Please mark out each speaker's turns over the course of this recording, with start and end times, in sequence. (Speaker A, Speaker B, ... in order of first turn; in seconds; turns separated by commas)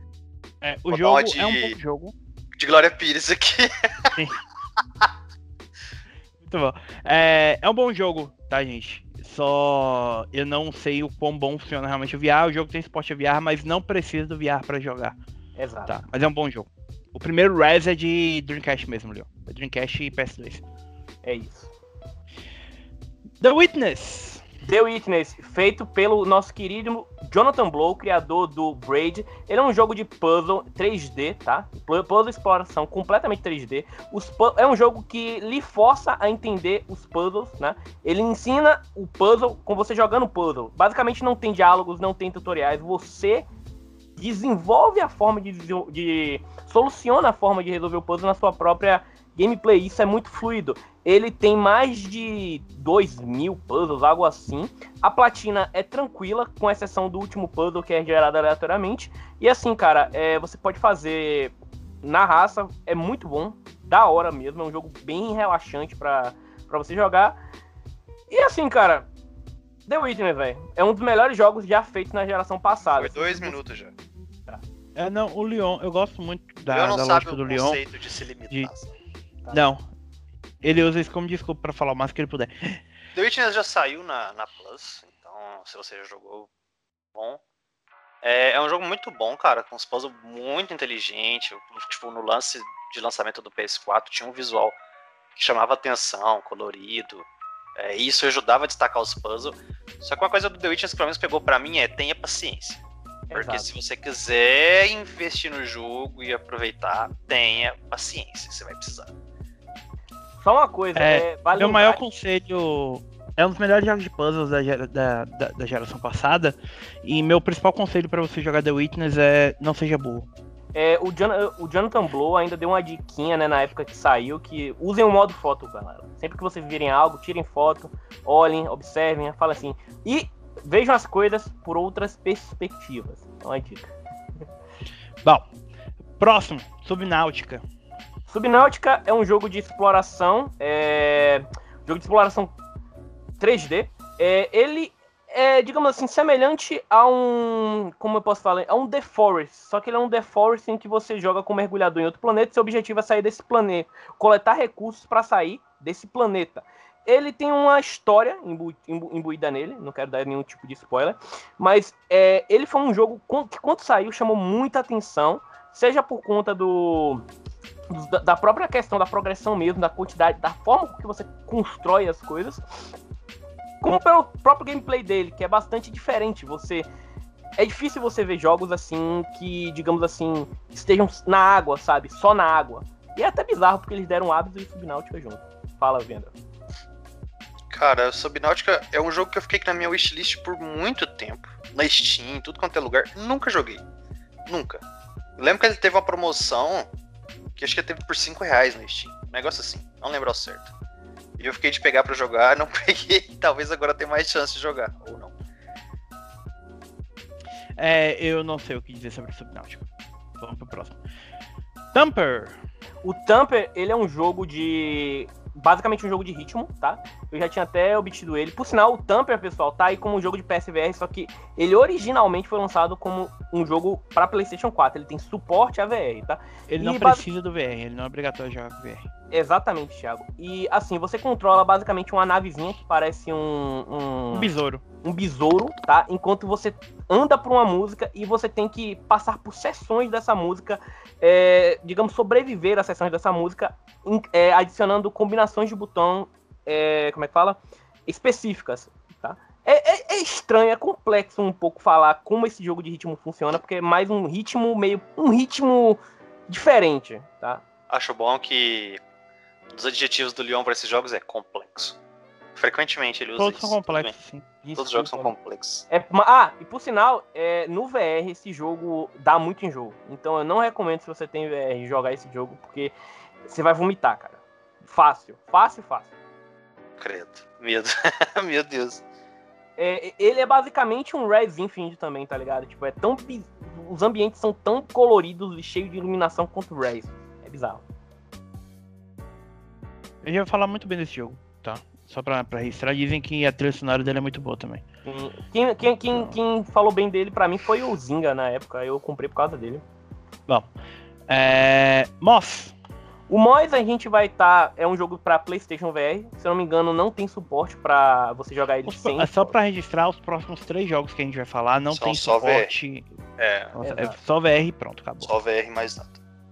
Speaker A: 0.6-2.1, Speaker B: 0.9-1.8, Speaker B: 2.6-4.2, Speaker A: 6.5-15.2, Speaker C: 15.6-16.0, Speaker A: 15.9-20.6, Speaker C: 21.2-21.7, Speaker A: 23.4-24.4, Speaker C: 24.7-43.5, Speaker C: 44.2-67.4, Speaker C: 68.3-69.1, Speaker C: 69.9-73.6, Speaker B: 72.9-73.9, Speaker A: 75.0-77.8, Speaker B: 76.7-78.9, Speaker A: 79.5-79.8, Speaker A: 80.6-82.8, Speaker B: 83.2-86.5, Speaker B: 87.2-87.4, Speaker B: 88.2-94.8, Speaker B: 95.4-97.2, Speaker B: 97.8-102.8, Speaker C: 103.3-103.7, Speaker B: 103.3-109.1, Speaker C: 110.4-112.0, Speaker A: 111.0-120.3, Speaker C: 120.7-133.9, Speaker A: 136.2-137.6, Speaker C: 138.3-142.5, Speaker C: 143.4-167.2, Speaker C: 167.9-172.6, Speaker C: 173.8-176.8, Speaker C: 177.6-186.3, Speaker B: 187.7-193.8, Speaker B: 194.5-194.8, Speaker B: 195.4-196.9, Speaker B: 197.6-200.7, Speaker B: 201.4-205.3, Speaker A: 207.8-209.9, Speaker A: 210.4-211.0, Speaker A: 211.9-212.6, Speaker C: 213.0-227.2, Speaker A: 226.7-229.1, Speaker C: 229.3-234.5, Speaker A: 234.3-234.8, Speaker C: 235.0-257.6, Speaker B: 257.9-259.0, Speaker B: 259.7-262.0, Speaker B: 262.6-264.1, Speaker A: 263.4-264.6, Speaker C: 264.6-265.3, Speaker B: 264.8-265.9, Speaker C: 265.9-272.9, Speaker C: 273.5-276.1, Speaker B: 277.0-279.0, Speaker C: 279.8-287.9, Speaker A: 290.2-294.8, Speaker C: 295.1-299.8, Speaker A: 301.3-302.7, Speaker C: 303.3-309.5, Speaker A: 308.9-313.1, Speaker B: 311.9-312.7, Speaker B: 313.4-313.8, Speaker A: 313.8-315.3, Speaker C: 313.8-314.1, Speaker B: 315.2-316.2